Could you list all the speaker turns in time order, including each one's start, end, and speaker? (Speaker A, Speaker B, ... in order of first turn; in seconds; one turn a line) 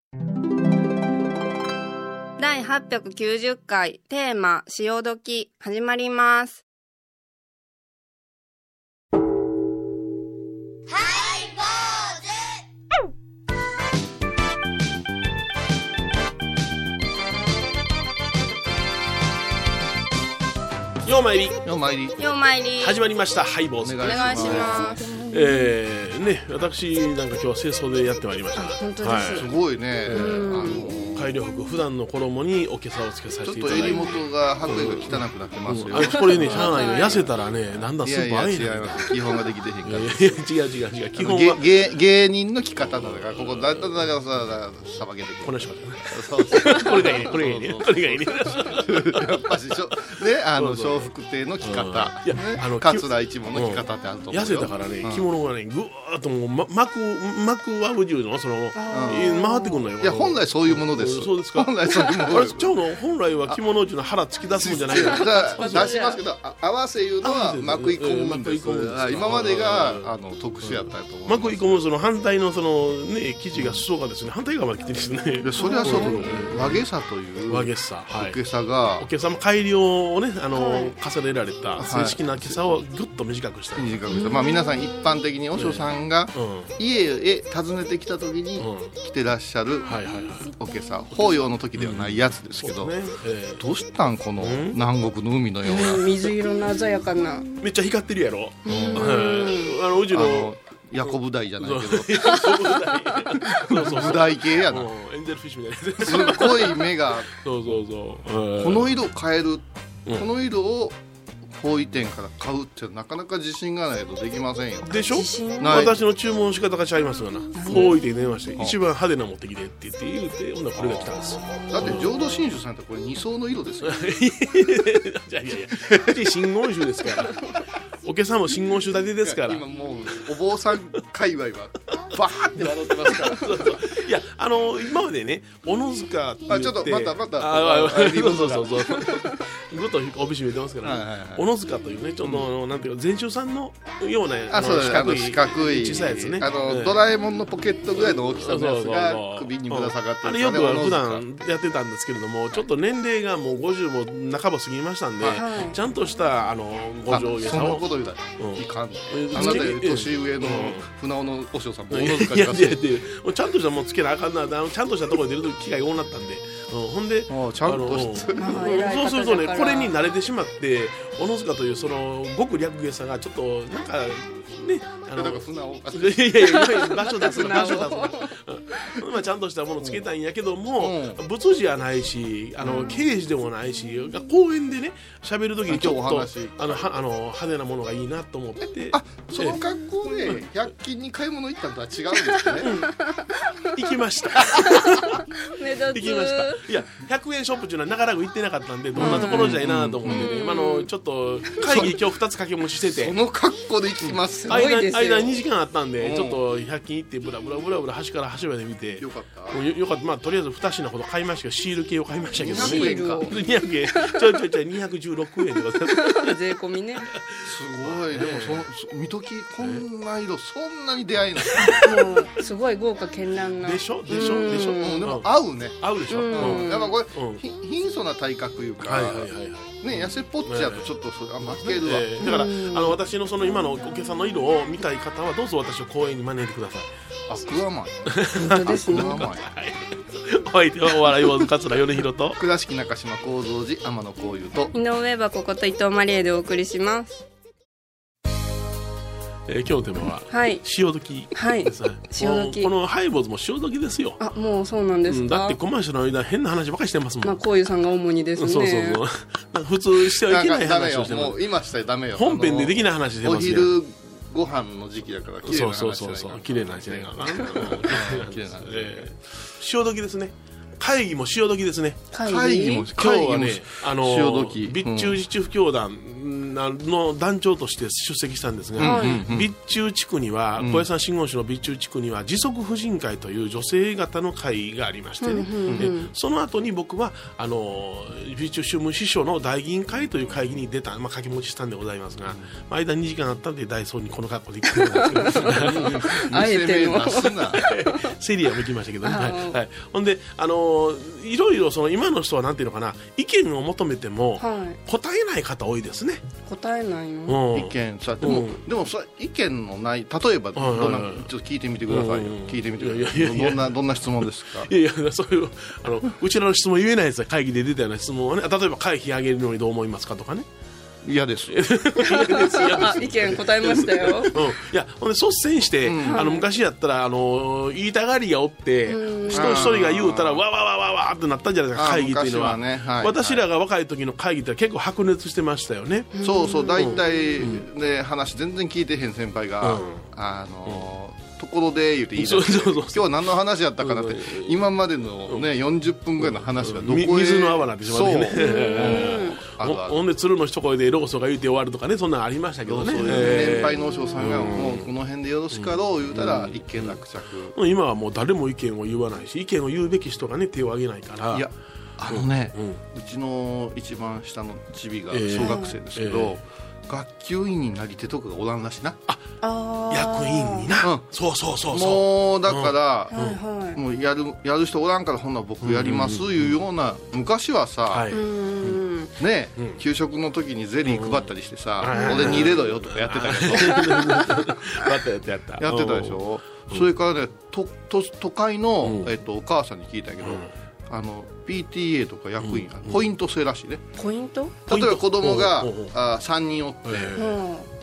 Speaker A: 2.4-6.6
Speaker B: 21.0-21.6
Speaker C: 21.6-22.2
Speaker A: 22.2-23.0
Speaker B: 22.8-29.5
Speaker C: 23.8-25.0
Speaker A: 24.0-25.0
Speaker A: 28.6-29.5
Speaker C: 29.3-31.3
Speaker B: 30.1-39.2
Speaker A: 30.1-30.9
Speaker C: 33.4-36.7
Speaker A: 33.7-34.2
Speaker A: 36.0-37.2
Speaker C: 38.0-40.4
Speaker B: 39.9-41.8
Speaker C: 41.1-55.2
Speaker B: 42.9-44.0
Speaker B: 45.4-49.3
Speaker B: 50.5-51.1
Speaker B: 51.6-65.9
Speaker A: 58.7-59.8
Speaker C: 58.9-59.3
Speaker C: 60.0-62.8
Speaker C: 64.6-71.6
Speaker A: 64.9-66.2
Speaker B: 67.2-76.8
Speaker C: 73.5-73.8
Speaker C: 75.4-79.1
Speaker A: 75.6-76.4
Speaker B: 77.5-78.4
Speaker B: 79.0-84.0
Speaker A: 80.5-80.9
Speaker C: 81.8-82.6
Speaker C: 83.8-92.9
Speaker A: 84.1-84.8
Speaker B: 85.5-86.7
Speaker B: 88.6-88.9
Speaker B: 89.8-90.5
Speaker B: 91.8-93.7
Speaker C: 93.6-96.0
Speaker B: 94.4-94.8
Speaker A: 95.7-97.5
Speaker B: 97.6-100.5
Speaker A: 98.7-99.7
Speaker C: 98.7-99.2
Speaker C: 100.1-102.6
Speaker B: 101.6-106.8
Speaker C: 103.5-104.9
Speaker C: 106.0-107.3
Speaker B: 107.4-108.9
Speaker C: 108.6-111.0
Speaker C: 111.5-115.9
Speaker B: 114.9-122.1
Speaker A: 115.1-115.9
Speaker A: 117.6-117.9
Speaker C: 120.8-124.0
Speaker B: 123.8-127.4
Speaker C: 125.7-126.2
Speaker B: 128.0-129.6
Speaker C: 129.2-133.8
Speaker B: 132.5-147.0
Speaker C: 136.5-139.1
Speaker C: 140.8-141.5
Speaker C: 142.2-142.5
Speaker C: 144.5-151.6
Speaker B: 147.9-157.8
Speaker C: 155.2-155.4
Speaker A: 155.3-155.8
Speaker C: 157.1-162.8
Speaker B: 158.4-160.9
Speaker B: 161.9-190.4
Speaker C: 167.3-168.6
Speaker A: 168.3-169.9
Speaker C: 175.1-176.4
Speaker A: 176.4-178.9
Speaker C: 177.2-177.9
Speaker C: 180.8-181.2
Speaker C: 185.7-186.9
Speaker C: 188.9-192.7
Speaker A: 192.6-193.4
Speaker B: 192.6-192.9
Speaker B: 193.7-195.2
Speaker A: 195.4-196.6
Speaker B: 195.9-203.2
Speaker A: 199.0-199.5
Speaker C: 199.0-200.3
Speaker A: 200.1-200.9
Speaker C: 201.6-201.9
Speaker C: 202.8-204.7
Speaker B: 204.1-216.4
Speaker A: 204.3-205.3
Speaker C: 206.0-206.4
Speaker C: 209.0-209.6
Speaker C: 212.4-213.3
Speaker A: 212.5-213.4
Speaker A: 215.9-217.1
Speaker B: 217.1-218.7
Speaker C: 217.4-221.7
Speaker B: 221.6-221.8
Speaker A: 221.8-225.0
Speaker B: 223.6-225.3
Speaker C: 224.2-229.3
Speaker B: 225.8-227.4
Speaker A: 226.1-226.9
Speaker B: 228.8-230.9
Speaker C: 229.8-232.2
Speaker B: 231.5-236.9
Speaker A: 232.2-232.9
Speaker C: 237.3-239.6
Speaker B: 238.1-242.4
Speaker A: 238.4-239.2
Speaker C: 242.3-244.7
Speaker A: 244.7-247.2
Speaker B: 249.5-254.2
Speaker A: 250.3-250.6
Speaker A: 251.3-252.7
Speaker A: 254.2-255.6
Speaker B: 255.1-257.4
Speaker A: 257.2-259.0
Speaker B: 258.4-261.5
Speaker C: 260.2-269.1
Speaker B: 262.1-263.7
Speaker B: 265.4-272.0
Speaker A: 272.1-272.9
Speaker C: 272.2-275.2
Speaker B: 272.9-296.2
Speaker C: 278.8-279.5
Speaker A: 278.8-279.2
Speaker C: 280.6-280.9
Speaker A: 285.2-286.1
Speaker A: 294.9-298.0
Speaker C: 295.3-297.6
Speaker B: 297.6-306.2
Speaker A: 299.0-299.6
Speaker A: 304.4-304.8
Speaker A: 306.4-307.4
Speaker B: 307.3-308.6
Speaker C: 307.5-314.7
Speaker B: 310.6-311.3
Speaker B: 311.9-320.4
Speaker C: 321.0-321.7
Speaker B: 321.5-336.1
Speaker A: 322.0-324.3
Speaker C: 325.8-326.2
Speaker A: 326.1-326.4
Speaker A: 328.9-329.6
Speaker C: 329.3-330.4
Speaker C: 331.7-333.4
Speaker A: 336.1-337.4
Speaker C: 336.2-350.0
Speaker B: 336.8-337.6
Speaker B: 339.6-340.1
Speaker B: 342.1-343.2
Speaker B: 343.8-344.6
Speaker B: 346.2-354.9
Speaker A: 348.4-349.4
Speaker C: 352.7-357.6
Speaker A: 353.0-354.6
Speaker B: 355.5-357.0
Speaker B: 357.5-361.5
Speaker C: 361.3-369.0
Speaker B: 362.1-362.8
Speaker B: 365.1-366.4
Speaker A: 365.4-365.7
Speaker A: 369.4-370.7
Speaker B: 369.9-373.4
Speaker C: 370.8-371.1
Speaker C: 371.7-373.1
Speaker A: 373.1-373.8
Speaker C: 373.7-378.1
Speaker B: 375.6-376.5
Speaker B: 377.9-378.8
Speaker A: 378.1-379.1
Speaker C: 379.2-384.2
Speaker B: 380.8-386.9
Speaker A: 381.9-382.5
Speaker A: 383.8-384.2
Speaker C: 385.6-393.8
Speaker B: 388.8-389.1
Speaker B: 390.2-390.5
Speaker B: 392.4-393.0
Speaker A: 394.0-394.6
Speaker C: 394.7-397.2
Speaker B: 394.7-395.9
Speaker B: 396.9-397.4
Speaker A: 397.1-397.7